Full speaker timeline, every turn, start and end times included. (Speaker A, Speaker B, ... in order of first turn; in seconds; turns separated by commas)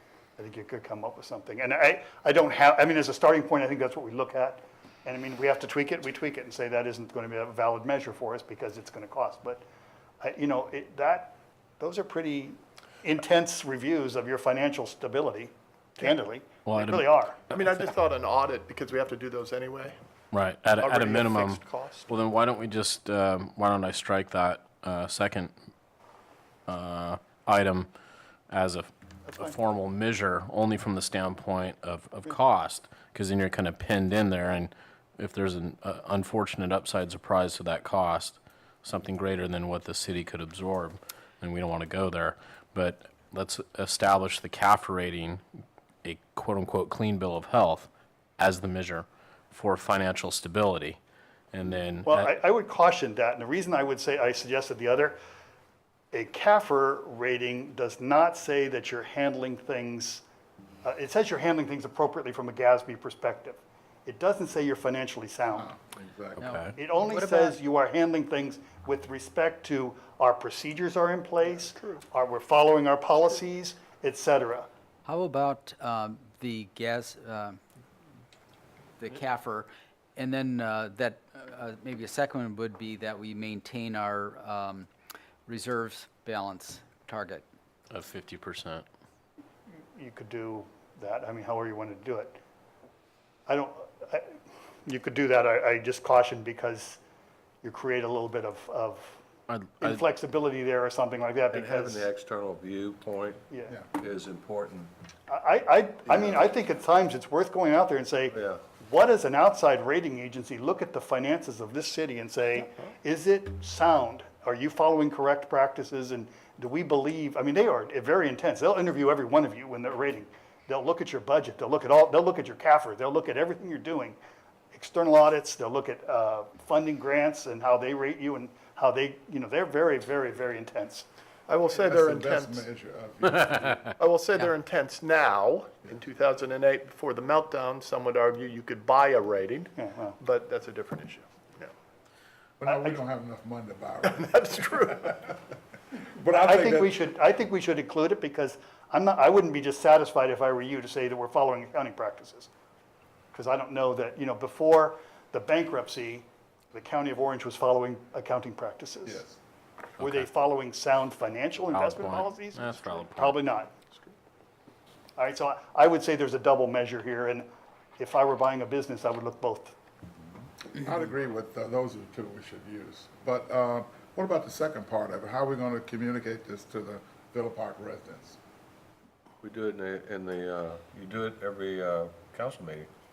Speaker A: 0.4-9.6, Speaker A: 10.2-17.4, Speaker B: 16.6-17.2, Speaker C: 17.5-20.0, Speaker B: 20.3-25.5, Speaker C: 20.7-22.1, Speaker B: 26.7-27.9, Speaker B: 28.5-45.4, Speaker A: 29.3-29.6, Speaker B: 46.0-51.0, Speaker B: 51.5-52.3, Speaker A: 52.1-55.2, Speaker A: 56.1-60.2, Speaker A: 60.8-65.7, Speaker D: 65.6-66.5, Speaker B: 66.4-66.7, Speaker E: 66.4-67.6, Speaker A: 66.8-74.7, Speaker C: 71.4-72.0, Speaker E: 75.1-77.6, Speaker E: 79.0-84.9, Speaker E: 85.5-87.5, Speaker B: 87.9-88.8, Speaker A: 90.0-92.4, Speaker A: 93.5-94.3, Speaker A: 94.9-97.0, Speaker A: 97.6-99.2, Speaker B: 99.5-100.0, Speaker A: 99.8-102.1, Speaker F: 101.5-103.4, Speaker A: 103.5-103.8, Speaker F: 103.9-104.9, Speaker A: 105.3-124.2, Speaker F: 108.3-108.6, Speaker A: 124.7-131.1, Speaker C: 131.5-132.6, Speaker D: 131.8-133.8, Speaker C: 133.7-141.7, Speaker A: 139.8-140.2, Speaker D: 142.6-144.3, Speaker A: 142.7-143.0, Speaker C: 144.0-145.2, Speaker D: 146.2-147.0, Speaker A: 146.3-152.5, Speaker A: 153.3-159.2, Speaker D: 159.1-159.4, Speaker B: 160.0-160.3, Speaker A: 160.0-163.7, Speaker B: 161.7-163.4, Speaker A: 165.2-167.5, Speaker A: 168.0-169.8, Speaker D: 170.7-178.4, Speaker F: 179.4-182.9